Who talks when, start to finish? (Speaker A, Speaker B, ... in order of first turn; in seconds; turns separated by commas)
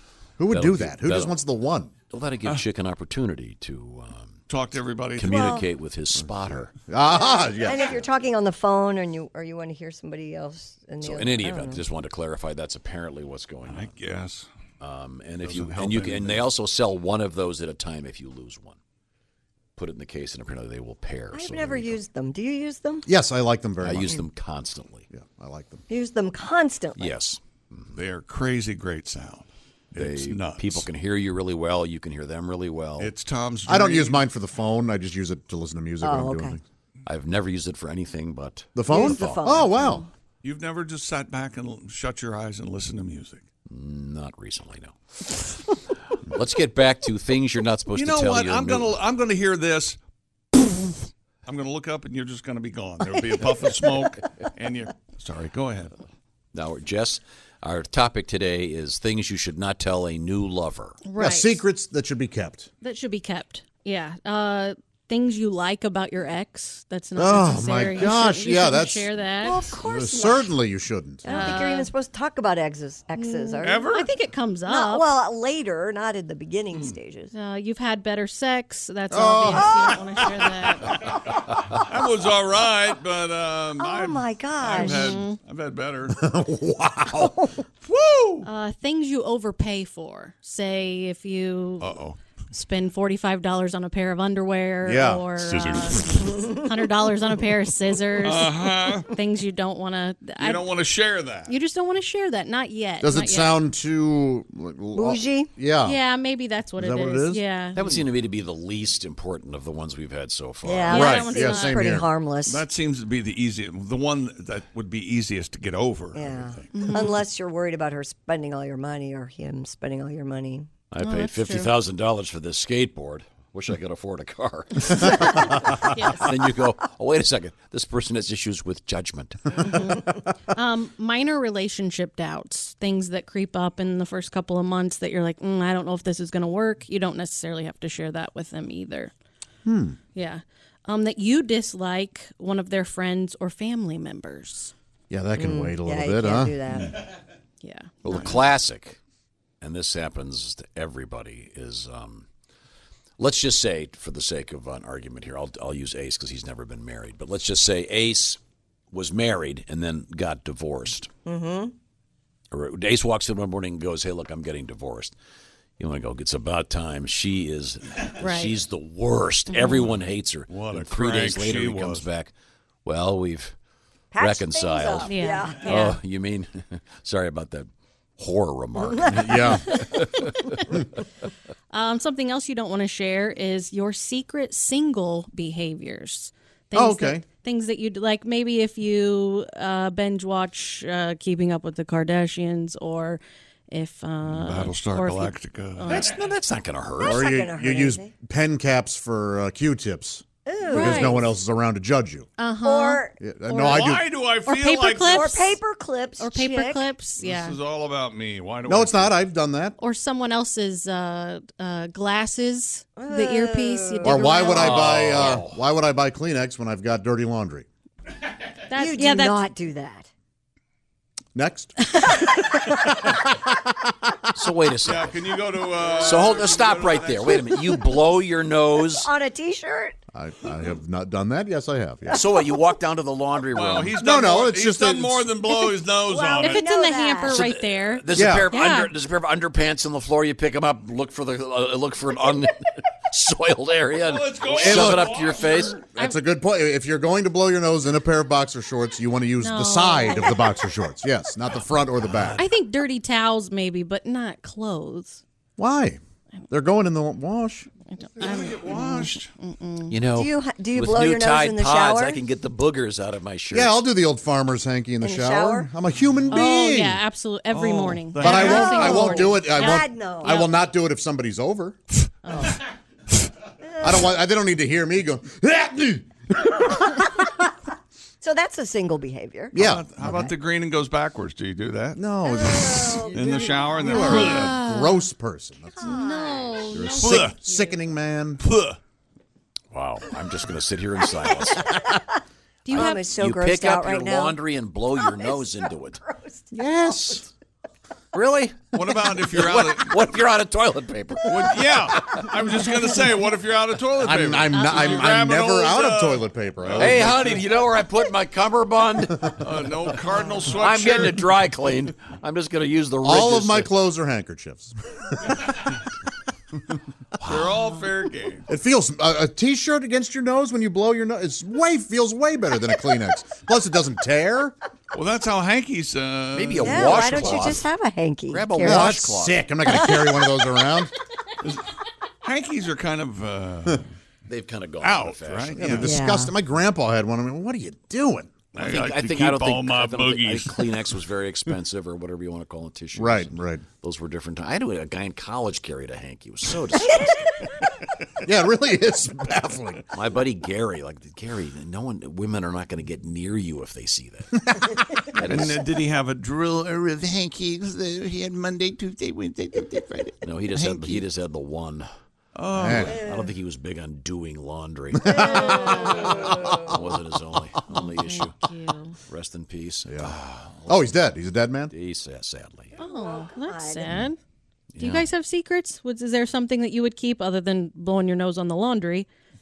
Speaker A: 0.4-1.9, Speaker B: 0.5-1.4, Speaker B: 2.1-4.4, Speaker C: 4.5-5.4, Speaker B: 5.2-6.7, Speaker D: 5.2-5.7, Speaker A: 6.4-8.0, Speaker D: 7.1-11.8, Speaker B: 11.0-13.9, Speaker C: 13.7-14.5, Speaker B: 14.8-18.8, Speaker C: 15.4-16.5, Speaker B: 19.8-22.0, Speaker D: 21.3-23.1, Speaker A: 23.1-24.3, Speaker B: 23.8-25.1, Speaker A: 25.1-25.8, Speaker D: 25.9-27.1, Speaker B: 27.0-28.0, Speaker C: 27.9-30.9, Speaker B: 30.0-33.1, Speaker C: 33.0-34.3, Speaker A: 33.7-36.6, Speaker D: 36.0-36.6, Speaker B: 37.1-39.5, Speaker A: 38.8-40.0, Speaker D: 38.9-40.0, Speaker C: 40.4-43.4, Speaker B: 43.7-44.9, Speaker B: 46.3-49.0, Speaker C: 47.9-50.0, Speaker C: 51.5-56.0, Speaker B: 56.5-61.0, Speaker E: 61.0-61.6, Speaker A: 61.2-62.7, Speaker E: 62.8-69.7, Speaker A: 67.2-69.1, Speaker D: 69.4-70.5, Speaker A: 69.8-71.5, Speaker D: 71.2-74.0, Speaker E: 71.2-71.9, Speaker E: 73.2-75.1, Speaker C: 73.6-74.1, Speaker D: 74.7-77.3, Speaker E: 77.3-81.0, Speaker A: 79.1-80.0, Speaker D: 79.5-79.9, Speaker C: 81.0-86.2, Speaker D: 83.8-85.2, Speaker E: 84.8-85.4, Speaker A: 86.1-87.5, Speaker C: 87.8-88.5, Speaker E: 88.4-91.9, Speaker C: 91.8-92.2, Speaker E: 92.5-100.7, Speaker A: 94.8-95.7, Speaker C: 95.6-96.1, Speaker C: 98.2-99.1, Speaker C: 100.4-101.5, Speaker E: 101.5-103.6, Speaker A: 103.0-106.0, Speaker D: 105.0-105.5, Speaker E: 105.8-107.8, Speaker A: 106.8-108.0, Speaker B: 107.8-111.1, Speaker D: 110.6-112.6, Speaker A: 110.9-112.1, Speaker E: 110.9-112.0, Speaker C: 112.5-116.7, Speaker D: 116.1-120.7, Speaker E: 116.7-117.2, Speaker B: 120.9-129.6, Speaker E: 121.0-121.7, Speaker E: 125.0-126.3, Speaker E: 129.6-139.1, Speaker A: 139.7-140.0, Speaker E: 140.2-144.7, Speaker A: 145.1-146.9, Speaker D: 145.4-147.0, Speaker E: 147.6-148.4, Speaker B: 148.0-149.0, Speaker B: 149.6-152.3, Speaker B: 153.2-158.4, Speaker B: 158.9-161.1, Speaker D: 161.3-161.7, Speaker B: 162.5-165.2, Speaker B: 165.8-172.3, Speaker E: 168.2-168.6, Speaker E: 169.5-169.8, Speaker C: 170.5-172.1, Speaker B: 172.8-173.6, Speaker D: 174.1-175.7, Speaker B: 174.2-180.3, Speaker E: 175.1-176.0, Speaker D: 178.8-179.6, Speaker A: 179.1-179.9, Speaker E: 179.7-180.6, Speaker E: 181.7-196.1, Speaker A: 186.7-187.2, Speaker C: 194.2-196.0, Speaker B: 195.8-197.2, Speaker D: 197.0-198.1, Speaker A: 197.0-202.3, Speaker D: 200.5-201.3, Speaker E: 200.7-201.2, Speaker E: 202.4-205.6, Speaker D: 202.6-203.2, Speaker A: 203.2-204.1, Speaker C: 203.7-205.4, Speaker D: 205.0-206.9, Speaker E: 206.2-207.6, Speaker C: 207.2-209.2, Speaker A: 208.7-209.8, Speaker E: 209.8-214.8, Speaker D: 213.0-214.8, Speaker A: 214.0-217.7, Speaker B: 214.5-215.6, Speaker E: 218.7-219.4, Speaker D: 218.8-220.1, Speaker A: 221.3-222.3, Speaker A: 223.1-223.9, Speaker B: 224.3-225.1, Speaker C: 224.8-227.5, Speaker B: 226.0-229.1, Speaker D: 228.8-230.0, Speaker A: 230.1-232.3, Speaker B: 232.1-234.0, Speaker C: 233.5-236.6, Speaker A: 234.0-235.5, Speaker D: 236.0-237.4, Speaker E: 236.4-238.9, Speaker B: 237.3-245.8, Speaker A: 238.1-238.5, Speaker C: 244.0-245.8, Speaker A: 244.5-245.1, Speaker A: 245.9-252.4, Speaker E: 246.0-246.2, Speaker E: 249.4-250.4, Speaker B: 252.1-252.4, Speaker E: 252.4-255.2, Speaker A: 255.6-256.0, Speaker A: 256.5-257.7, Speaker E: 257.9-260.0, Speaker C: 258.2-259.3, Speaker B: 259.9-263.8, Speaker D: 260.1-262.2, Speaker A: 263.5-267.0, Speaker D: 265.0-265.7, Speaker E: 266.3-270.6, Speaker C: 267.5-268.6, Speaker A: 268.2-271.8, Speaker D: 268.3-270.4, Speaker E: 272.2-272.6, Speaker D: 273.6-274.2, Speaker A: 273.8-277.1, Speaker D: 278.2-279.6, Speaker A: 279.5-280.3, Speaker C: 279.6-284.6, Speaker A: 281.9-283.1, Speaker D: 282.2-283.8, Speaker A: 283.8-286.0, Speaker E: 283.9-285.1, Speaker D: 285.7-286.8, Speaker E: 285.8-287.7, Speaker A: 286.7-288.4, Speaker C: 286.9-287.4, Speaker C: 288.4-288.8, Speaker B: 289.7-291.8, Speaker D: 291.1-296.5, Speaker E: 292.6-293.1, Speaker B: 292.8-296.0, Speaker A: 296.5-297.2, Speaker B: 298.1-302.3, Speaker C: 298.7-300.0, Speaker C: 301.3-307.4, Speaker A: 304.0-307.3, Speaker B: 306.8-313.7, Speaker C: 309.4-311.3, Speaker A: 313.0-315.5, Speaker B: 317.2-317.7, Speaker C: 317.3-318.4, Speaker A: 318.5-324.6, Speaker C: 324.9-327.6, Speaker B: 326.4-327.7, Speaker D: 326.6-328.9, Speaker B: 328.3-329.4, Speaker A: 328.6-330.9, Speaker D: 329.7-330.3, Speaker C: 332.2-333.8, Speaker B: 334.3-335.8, Speaker C: 334.8-335.9, Speaker A: 335.6-338.3, Speaker D: 335.8-336.3, Speaker B: 338.5-347.1, Speaker C: 338.6-340.9, Speaker A: 342.9-343.6, Speaker D: 346.8-347.6, Speaker A: 348.2-349.8, Speaker B: 349.9-355.6, Speaker A: 354.5-354.7, Speaker C: 355.2-361.0, Speaker B: 360.2-361.9, Speaker C: 362.4-363.0, Speaker A: 362.6-363.0, Speaker B: 362.7-365.7, Speaker D: 362.9-363.2, Speaker A: 365.0-366.2, Speaker D: 365.3-366.5, Speaker B: 366.6-368.4, Speaker E: 367.7-369.0, Speaker B: 369.1-370.9, Speaker A: 369.9-370.1, Speaker A: 370.7-371.7, Speaker B: 371.7-372.8, Speaker D: 372.8-374.1, Speaker E: 372.8-374.2, Speaker B: 374.7-375.1, Speaker E: 374.8-379.1